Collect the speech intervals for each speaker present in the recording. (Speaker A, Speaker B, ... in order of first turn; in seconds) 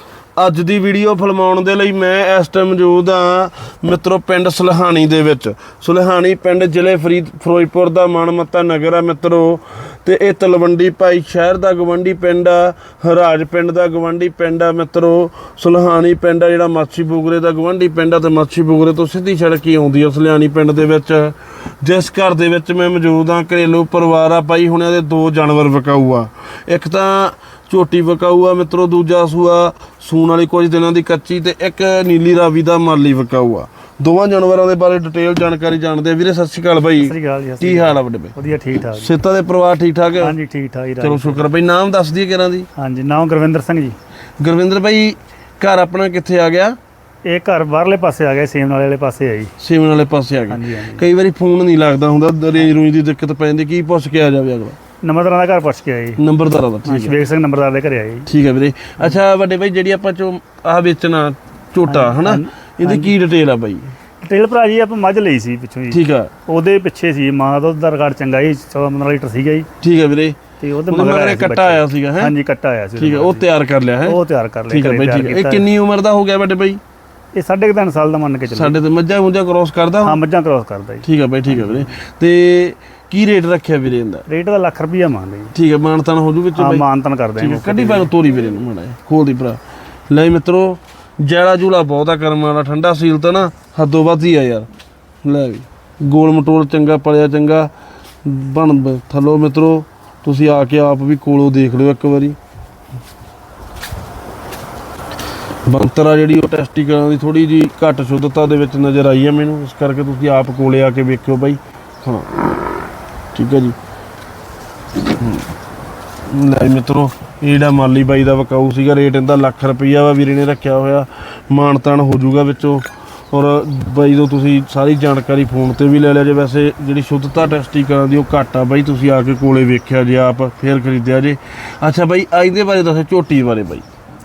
Speaker A: 0.4-38.3, 38.9-40.3, 41.0-42.7, 44.4-46.8, 49.6-54.8, 56.2-57.2, 58.3-63.9, 65.9-66.3, 69.8-72.3, 73.0-76.8, 78.5-80.2, 81.0-84.2, 85.5-86.8, 87.4-94.7, 95.2-97.7, 98.2-102.4, 105.7-112.3, 113.3-113.8, 115.2-115.5, 116.3-133.8
Speaker B: 37.0-39.1, 40.2-41.5, 42.8-44.0, 47.2-49.5, 50.5-51.0, 55.0-56.2, 56.9-58.3, 61.9-63.1, 64.2-69.7, 70.6-73.5, 74.0-75.7, 77.3-78.8, 80.0-81.0, 84.3-85.5, 86.5-88.1